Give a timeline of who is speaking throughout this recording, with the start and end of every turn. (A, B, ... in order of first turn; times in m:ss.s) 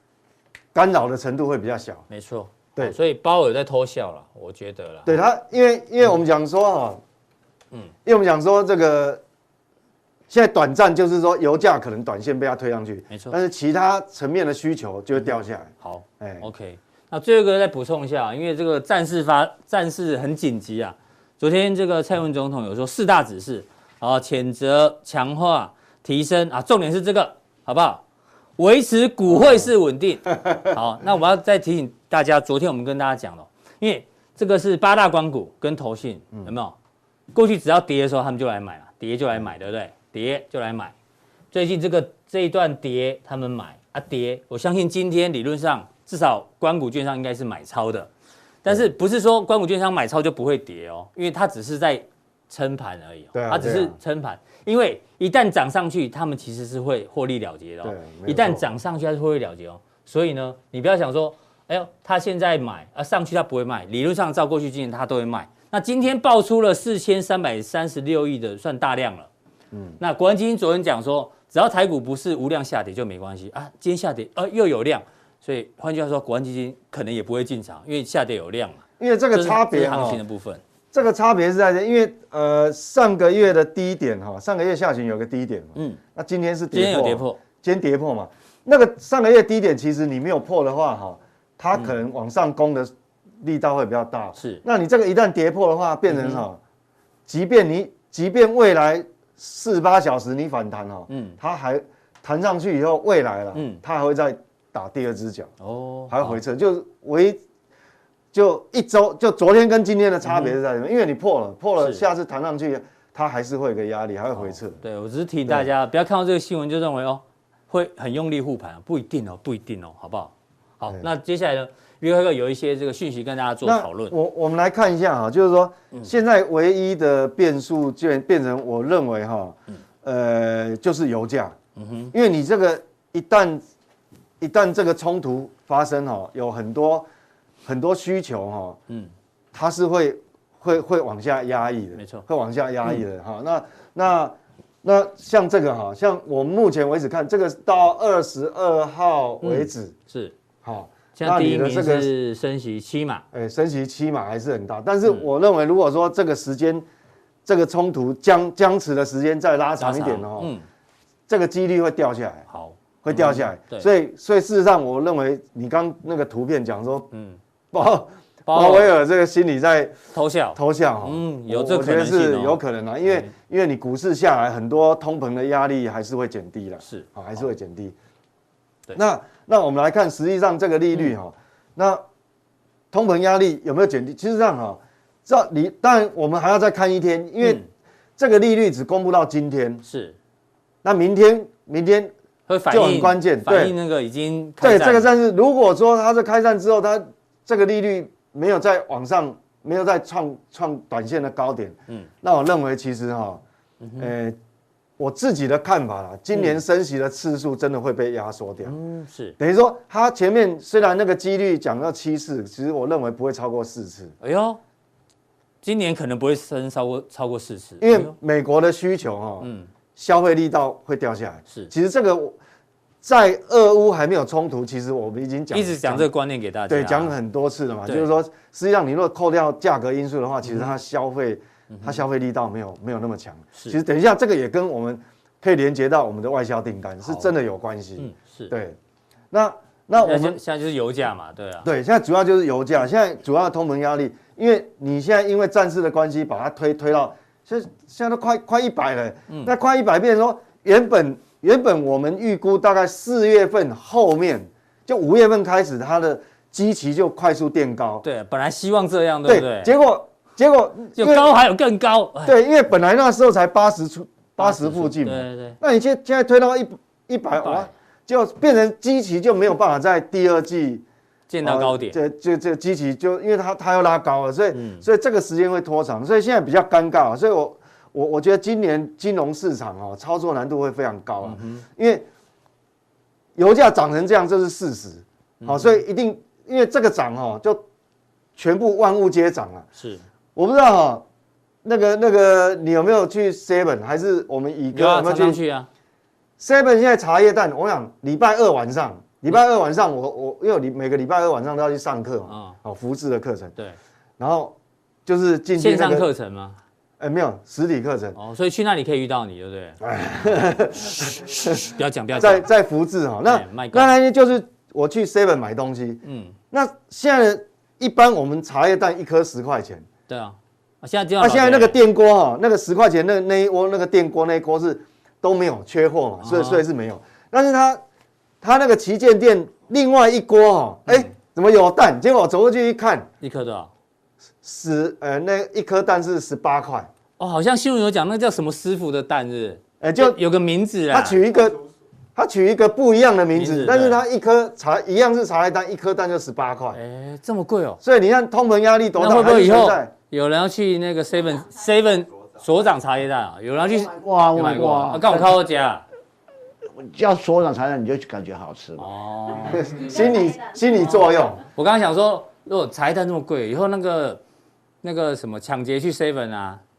0:00.7-0:02.0 A
0:02.1-0:05.2 B
0:05.1-0:07.0 A
0:08.0-0:09.2 A
0:10.3-0:16.5 A
0:15.8-0:28.0 B
0:28.6-0:36.8 B
0:37.3-0:40.9 B
0:41.5-0:48.1 B
0:48.6-1:09.3 B
0:53.3-0:54.0 A
0:57.8-0:58.6 A
1:09.7-1:10.0 A
1:10.0-1:18.8 B
1:19.0-1:20.2 A
1:19.3-1:20.6 B
1:20.9-1:32.9 A
1:26.7-1:27.4 B
1:33.4-1:36.6 A
1:34.4-1:34.6 B
1:36.1-1:36.4 B
1:37.3-1:45.5 A
1:41.1-1:41.4 B
1:43.6-1:43.8 B
1:45.6-1:46.4 B
1:46.1-1:47.4 A
1:48.3-1:54.8 A
1:50.2-1:50.6 B
1:51.8-1:52.0 B
1:54.4-2:04.2 B
2:03.6-2:11.6 A
2:11.8-2:12.1 B
2:12.1-2:13.6 A
2:14.4-2:17.1 A
2:17.7-2:18.8 A
2:19.5-2:29.9 A
2:22.0-2:22.3 B
2:29.4-2:30.3 B
2:30.6-2:32.1 A
2:31.2-2:33.2 B
2:33.3-2:36.8 A
2:37.5-2:40.5 A
2:39.8-2:40.6 B
2:41.3-2:42.5 A
2:42.5-2:43.9 B
2:43.0-2:47.1 A
2:47.1-2:47.4 B
2:47.7-2:50.0 A
2:48.5-2:48.9 B
2:50.1-2:53.3 B
2:50.6-2:57.9 A
2:59.0-3:02.0 A
3:02.9-3:07.6 A
3:08.2-3:09.8 A
3:09.8-3:10.2 B
3:10.8-3:12.1 A
3:12.5-3:15.1 B
3:12.7-3:13.7 A
3:14.6-3:23.4 A
3:23.8-3:24.1 B
3:24.0-3:24.4 A
3:25.0-3:28.8 A
3:26.3-3:26.6 B
3:28.7-3:29.4 B
3:29.4-3:34.2 A
3:34.2-3:34.6 B
3:35.6-3:38.1 B
3:37.8-3:42.4 A
3:39.4-3:39.7 B
3:43.0-3:46.1 A
3:45.5-3:47.1 B
3:46.7-3:58.8 A
3:50.4-3:50.7 B
3:51.7-3:52.0 B
3:57.0-3:57.3 B
3:58.0-3:58.5 B
3:59.3-4:00.4 A
4:00.0-4:01.7 B
4:01.6-4:18.0 A
4:18.0-4:19.7 B
4:19.3-4:21.3 A
4:21.0-4:22.4 B
4:22.2-4:30.8 A
4:24.4-4:25.6 B
4:27.4-4:27.7 B
4:31.3-4:32.0 B
4:31.4-4:42.0 A
4:34.5-4:34.8 B
4:41.2-4:41.6 B
4:43.4-4:47.6 A
4:45.4-4:45.8 B
4:48.4-4:49.7 A
4:49.8-4:50.0 B
4:50.4-4:51.0 A
4:51.6-4:55.4 A
4:54.7-4:55.7 B
4:56.4-5:03.5 A
5:02.3-5:02.6 B
5:04.2-5:04.5 A
5:05.1-5:06.1 A
5:05.6-5:06.6 B
5:07.0-5:08.2 A
5:08.2-5:09.8 B
5:09.8-5:19.9 A
5:11.0-5:12.5 B
5:13.3-5:13.9 B
5:16.0-5:16.3 B
5:20.1-5:21.8 B
5:21.2-5:27.8 A
5:26.2-5:26.6 B
5:28.4-5:33.1 A
5:33.2-5:33.7 B
5:34.4-5:36.9 A
5:37.2-5:41.2 B
5:39.8-5:40.2 A
5:40.9-5:41.6 A
5:42.2-5:46.8 A
5:43.4-5:44.0 B
5:46.7-5:47.8 B
5:47.8-5:49.9 A
5:49.0-5:55.8 B
5:53.7-5:55.3 C
5:56.8-5:58.9 C
5:58.8-5:59.9 B
5:59.4-6:01.4 A
6:01.4-6:04.2 B
6:04.8-6:06.6 B